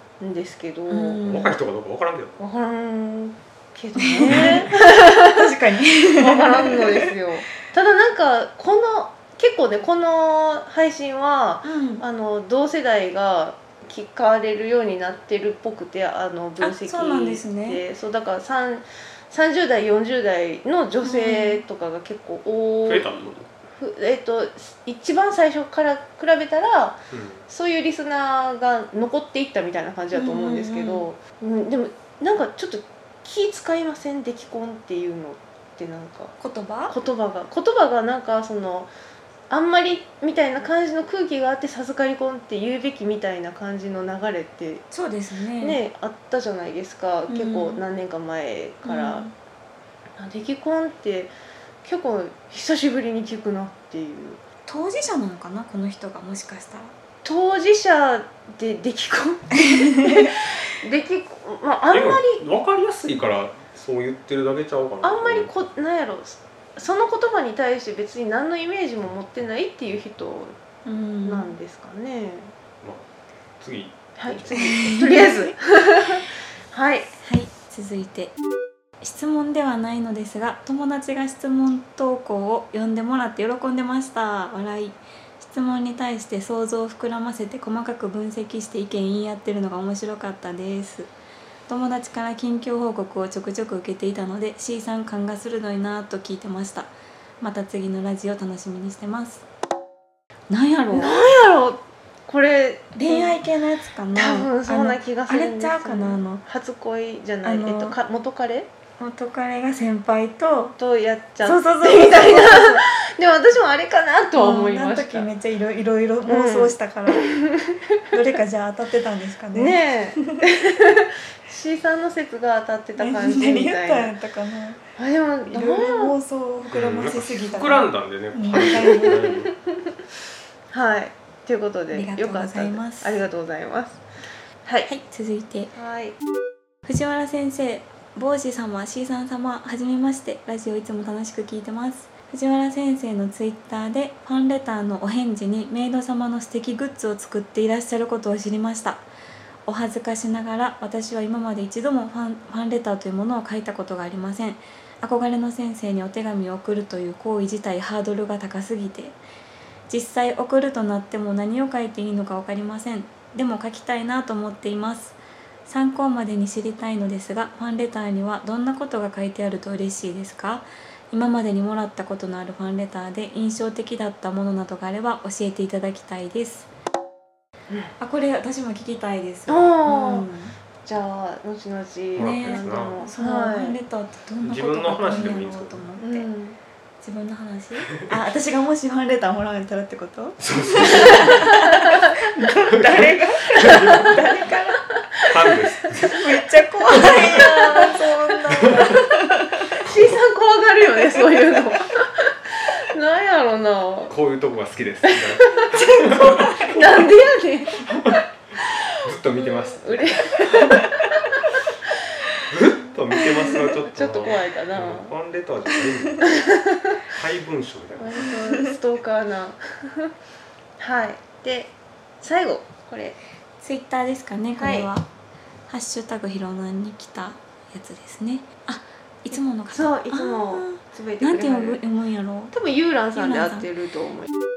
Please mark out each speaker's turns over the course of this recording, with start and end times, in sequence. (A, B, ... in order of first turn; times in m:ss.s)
0:00.2-0:01.2 A
0:00.9-0:01.5 B
0:01.2-0:02.4 C
0:02.4-0:05.4 A
0:04.0-0:07.1 B
0:04.3-0:04.7 C
0:06.1-0:36.4 A
0:11.6-0:12.0 B
0:16.6-0:17.8 B
0:21.0-0:21.6 B
0:22.9-0:23.5 C
0:27.1-0:27.4 C
0:30.1-0:31.1 B
0:36.4-0:36.9 B
0:36.9-0:38.9 A
0:39.5-0:44.8 A
0:44.9-0:45.8 B
0:45.6-0:49.3 A
0:47.3-0:47.8 B
0:48.8-0:49.3 B
0:50.2-0:54.4 A
0:54.7-0:56.9 B
0:57.2-1:02.4 A
0:59.7-1:00.3 B
1:01.9-1:05.5 C
1:05.0-1:10.6 A
1:10.8-1:11.5 B
1:11.2-1:12.5 A
1:13.6-1:14.9 C
1:14.2-1:17.1 A
1:14.6-1:15.5 B
1:17.2-1:18.4 B
1:19.0-1:31.1 B
1:31.7-1:39.4 B
1:40.5-1:41.4 B
1:40.9-1:43.4 A
1:42.9-1:46.4 B
1:44.1-1:48.7 A
1:47.4-1:47.9 B
1:49.0-1:50.8 B
1:50.8-1:55.3 A
1:51.4-1:52.8 B
1:54.4-1:57.4 B
1:56.3-1:58.0 A
1:58.1-2:00.4 B
1:59.6-2:04.1 A
2:03.0-2:04.8 B
2:05.0-2:06.1 A
2:05.5-2:09.3 B
2:06.7-2:09.5 C
2:09.1-2:09.8 A
2:10.7-2:14.0 A
2:11.9-2:13.2 B
2:14.6-2:14.9 A
2:14.9-2:15.7 B
2:15.7-2:16.2 A
2:16.9-2:29.0 B
2:29.6-2:39.2 B
2:39.9-2:56.7 B
2:58.0-3:00.5 B
2:59.5-3:00.3 A
3:00.8-3:03.8 A
3:02.2-3:03.0 C
3:02.2-3:06.3 B
3:04.4-3:05.8 C
3:06.0-3:06.6 A
3:07.0-3:14.8 B
3:10.4-3:11.5 C
3:11.2-3:12.0 A
3:12.4-3:14.2 C
3:15.2-3:15.6 A
3:15.3-3:16.4 C
3:16.1-3:19.7 B
3:16.9-3:19.0 A
3:18.6-3:19.0 C
3:19.7-3:24.1 A
3:24.1-3:26.7 C
3:25.1-3:25.9 A
3:25.7-3:26.8 B
3:26.6-3:27.8 A
3:27.9-3:28.2 C
3:28.9-3:30.9 C
3:29.3-3:31.4 A
3:32.5-3:36.3 C
3:32.8-3:35.1 A
3:33.2-3:33.6 B
3:36.2-3:37.0 A
3:37.1-3:38.4 C
3:38.0-3:40.1 A
3:38.3-3:38.7 B
3:40.8-3:43.2 A
3:43.6-3:45.1 B
3:44.6-3:44.9 A
3:45.7-3:52.5 B
3:49.7-3:51.8 A
3:52.5-3:54.3 A
3:53.1-3:53.7 B